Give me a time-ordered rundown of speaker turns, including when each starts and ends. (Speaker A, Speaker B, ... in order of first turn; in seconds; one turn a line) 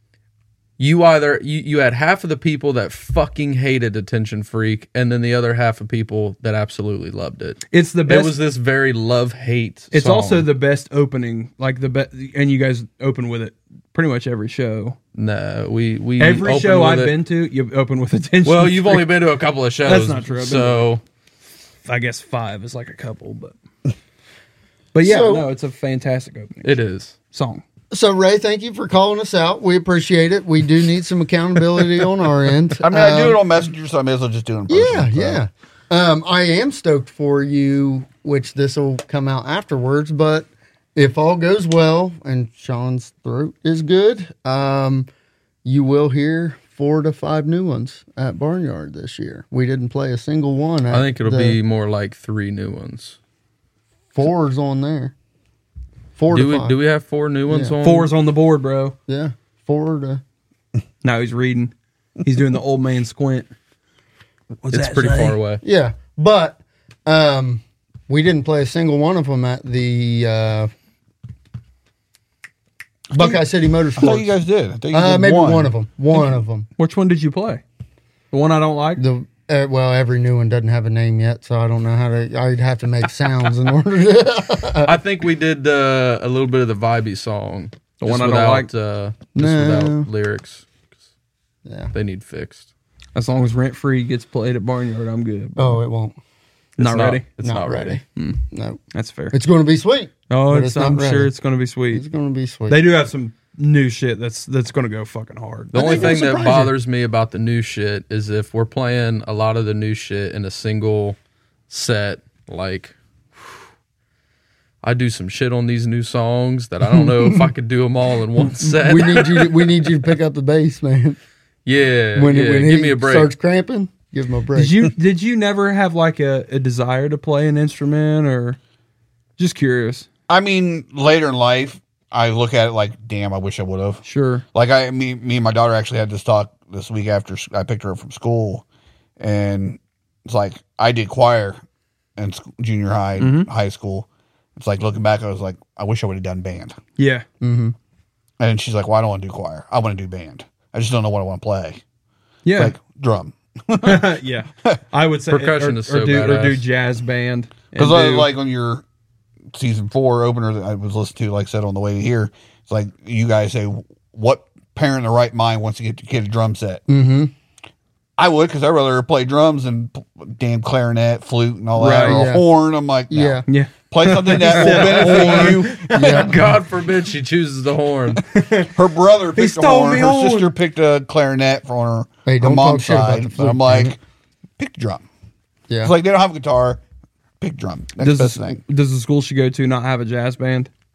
Speaker A: 0.8-10.4
Speaker B: 7.7-8.3
Speaker B: 9.9-15.0
Speaker A: 15.1-17.1
Speaker B: 16.2-19.1
Speaker A: 18.4-21.0
Speaker B: 19.8-20.9
Speaker B: 21.9-23.5
Speaker B: 24.9-26.7
Speaker C: 25.0-25.5
Speaker A: 26.6-27.1
Speaker B: 27.3-27.6
Speaker C: 27.9-33.4
Speaker D: 32.8-35.4
Speaker C: 34.7-45.1
Speaker C: 45.6-51.6
Speaker A: 50.9-53.2
Speaker C: 54.1-55.1
Speaker C: 56.1-56.8
Speaker A: 56.3-58.1
Speaker C: 57.5-57.7
Speaker B: 57.8-59.0
Speaker C: 59.1-60.2
Speaker B: 61.0-61.7
Speaker B: 62.2-63.5
Speaker B: 64.6-65.4
Speaker A: 64.7-65.6
Speaker C: 65.6-70.7
Speaker C: 73.1-74.3
Speaker D: 73.1-73.4
Speaker D: 74.0-75.7
Speaker C: 74.9-76.7
Speaker B: 76.8-77.6
Speaker B: 78.3-79.0
Speaker C: 79.0-84.9
Speaker A: 84.8-90.7
Speaker B: 88.0-88.7
Speaker C: 89.3-90.1
Speaker C: 91.7-91.9
Speaker A: 91.9-92.7
Speaker B: 93.1-95.8
Speaker C: 95.6-96.1
Speaker B: 96.8-97.2
Speaker A: 96.8-98.0
Speaker C: 97.4-98.8
Speaker B: 98.9-99.3
Speaker C: 99.3-101.3
Speaker B: 100.3-102.0
Speaker C: 101.9-102.8
Speaker B: 102.7-106.5
Speaker C: 105.7-106.7
Speaker A: 105.7-111.2
Speaker A: 111.7-113.0
Speaker A: 114.8-119.6
Speaker C: 116.9-117.5
Speaker C: 118.5-121.2
Speaker A: 121.6-123.3
Speaker C: 122.2-124.8
Speaker B: 124.5-128.6
Speaker B: 129.4-130.1
Speaker D: 130.3-134.0
Speaker B: 134.1-134.4
Speaker D: 134.5-138.6
Speaker D: 139.2-141.6
Speaker D: 142.2-146.8
Speaker B: 143.2-143.5
Speaker B: 147.0-147.2
Speaker C: 147.4-147.7
Speaker D: 148.4-151.8
Speaker B: 152.4-152.7
Speaker D: 152.5-154.1
Speaker B: 153.8-158.3
Speaker A: 155.3-156.6
Speaker D: 157.8-158.8
Speaker D: 159.5-166.8
Speaker C: 166.9-167.3
Speaker D: 168.2-175.9
Speaker B: 171.8-172.2
Speaker C: 171.9-172.4
Speaker C: 173.1-173.4
Speaker B: 173.5-176.4
Speaker A: 174.5-178.2
Speaker C: 175.9-176.3
Speaker B: 178.2-178.7
Speaker D: 178.7-184.0
Speaker B: 179.3-180.5
Speaker C: 182.2-183.9
Speaker D: 184.6-185.0
Speaker D: 185.8-186.8
Speaker D: 187.4-188.6
Speaker B: 188.0-190.7